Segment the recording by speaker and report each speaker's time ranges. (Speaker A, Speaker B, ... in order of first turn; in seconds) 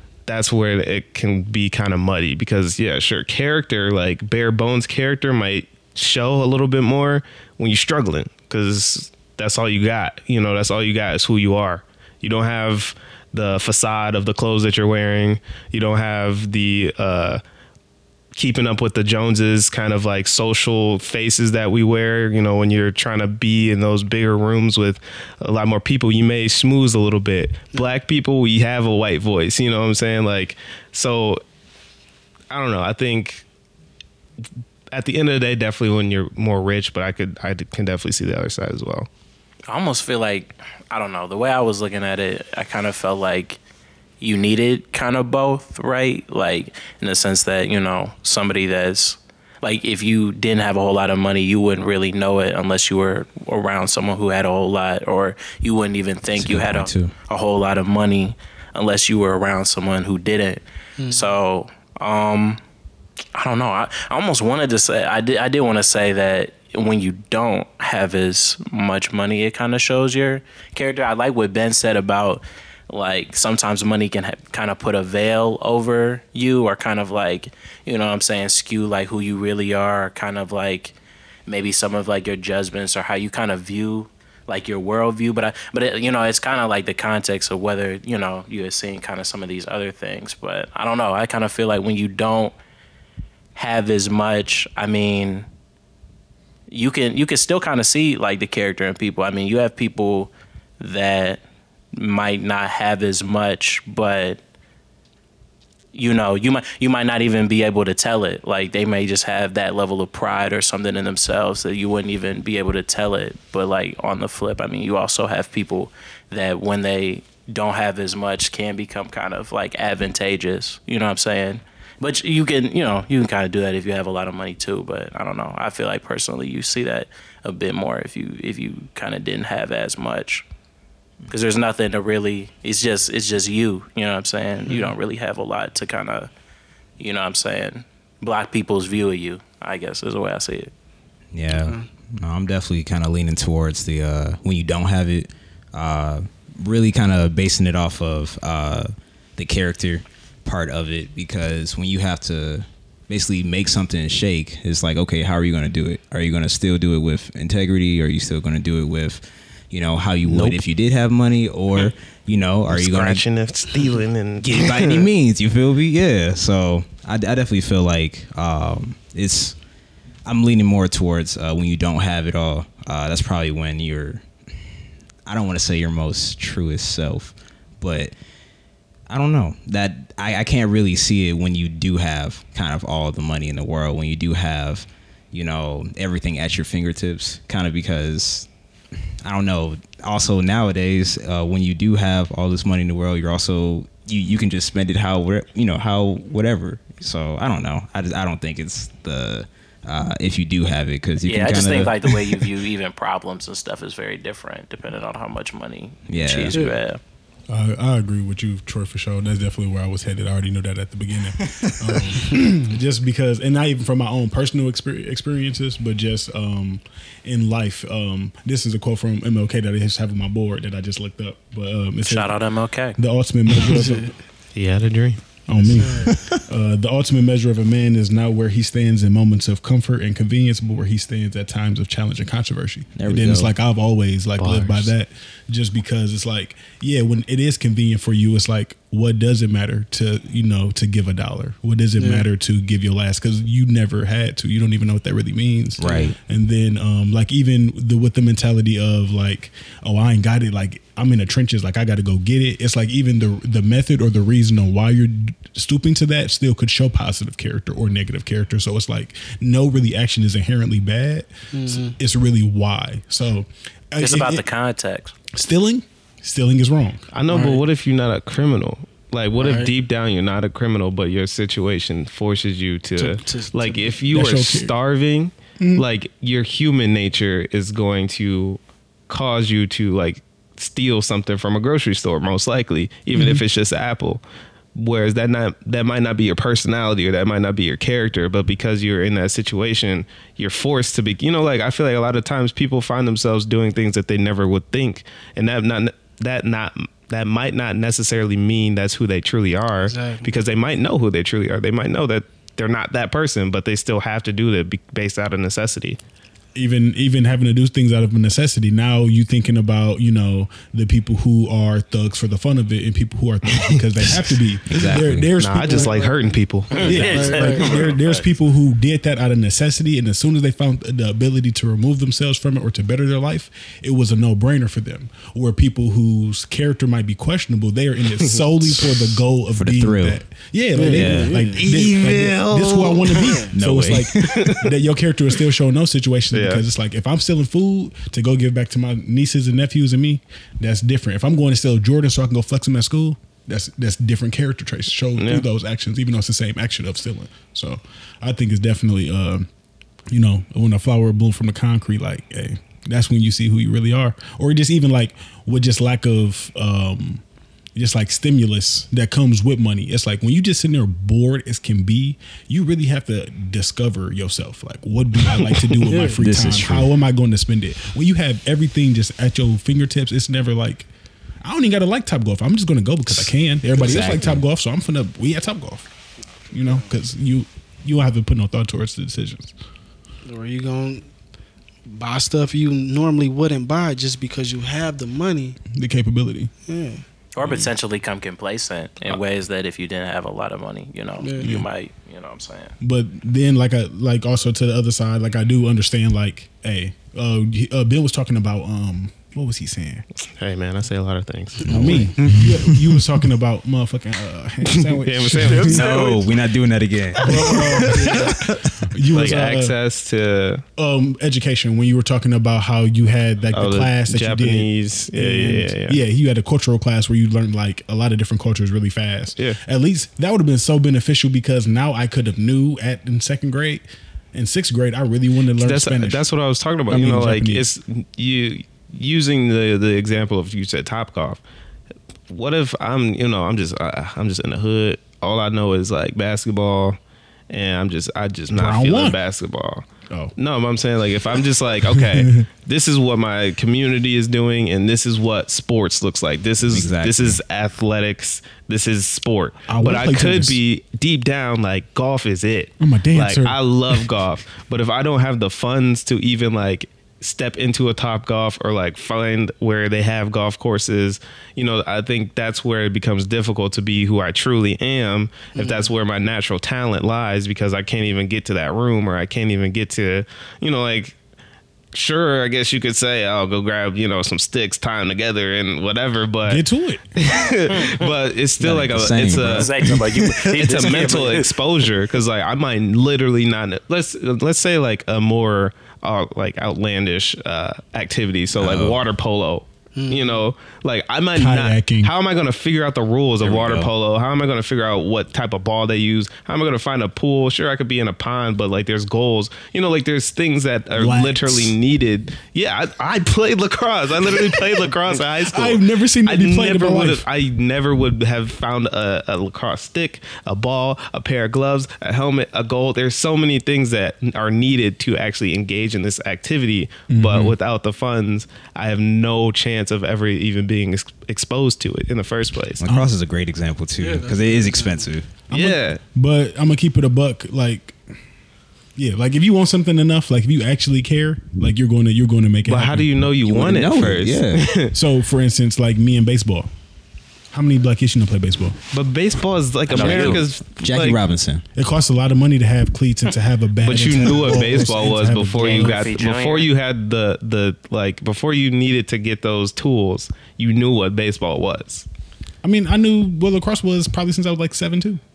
Speaker A: 0.3-17.4, 18.3-31.4, 32.5-33.4, 34.9-39.1, 160.2-160.6, 162.7-165.1, 224.5-225.2, 234.4-234.9, 267.1-284.2, 284.7-306.0, 315.4-317.8, 328.2-328.9, 331.6-333.3, 334.1-334.7, 336.3-336.6, 345.2-345.5, 365.2-365.8, 400.2-402.1, 404.6-405.9, 409.1-410.6, 413.5-416.0, 425.6-431.4, 432.3-437.0, 437.5-439.8, 440.4-471.1, 471.9-476.6, 477.1-522.8, 525.5-526.0, 532.6-534.9, 538.9-541.2, 543.8-552.0
Speaker B: 39.7-43.6, 44.2-62.6, 63.3-80.9, 81.5-92.5, 93.5-95.5, 96.7-101.4, 101.9-104.4, 105.9-130.4, 131.3-136.3, 137.0-140.7, 201.2-207.0, 222.1-223.0, 264.0-265.1, 316.7-318.2, 387.3-392.7, 405.4-406.3, 407.1-408.2, 477.7-478.0, 479.5-481.5, 539.9-540.4, 545.5-546.7
Speaker C: 56.4-57.1, 141.3-163.2, 164.4-169.6, 170.2-174.2, 175.2-178.1, 179.1-188.5, 189.2-202.4, 206.1-206.6, 211.4-211.8, 226.1-226.4, 232.9-233.5, 245.8-246.2, 314.7-315.3, 329.5-330.2, 330.8-332.5, 333.5-334.6, 366.1-366.9, 373.7-374.4, 401.9-402.8, 405.6-407.6, 446.7-447.4, 478.6-480.1, 488.5-489.0, 493.4-493.9, 522.8-525.3, 533.4-534.7, 539.9-541.6
Speaker D: 61.0-61.3, 141.5-141.9, 223.6-224.1, 225.7-226.2, 242.0-242.2, 245.8-246.1, 261.5-262.0, 267.3-267.6, 269.4-269.7, 273.0-273.9, 299.9-300.3, 315.6-317.8, 330.7-331.6, 333.1-333.5, 365.8-366.2, 373.8-374.3, 380.2-381.1, 381.9-385.6, 386.7-387.0, 391.2-391.5, 401.6-402.5, 407.8-408.4, 465.6-465.9, 489.9-490.4, 524.0-525.1
Speaker E: 207.5-222.4, 222.9-224.1, 225.5-264.4, 265.3-267.1, 274.1-274.7, 275.6-275.8, 283.1-283.4, 306.5-316.0, 316.8-349.5, 350.1-357.2, 357.7-370.9, 371.4-375.9, 376.5-379.5, 385.7-386.5, 387.4-387.7, 391.4-391.6, 392.8-400.0, 401.7-406.0, 407.2-409.8, 410.8-426.3, 426.9-427.7, 438.5-439.2, 441.8-442.4, 449.7-450.6, 452.8-454.0, 476.4-477.0, 491.3-492.1, 500.9-501.8, 505.4-507.2, 517.1-517.5, 522.8-523.1, 525.5-528.0, 529.0-533.2, 534.9-536.7, 537.5-538.8, 541.7-546.0, 552.6-555.2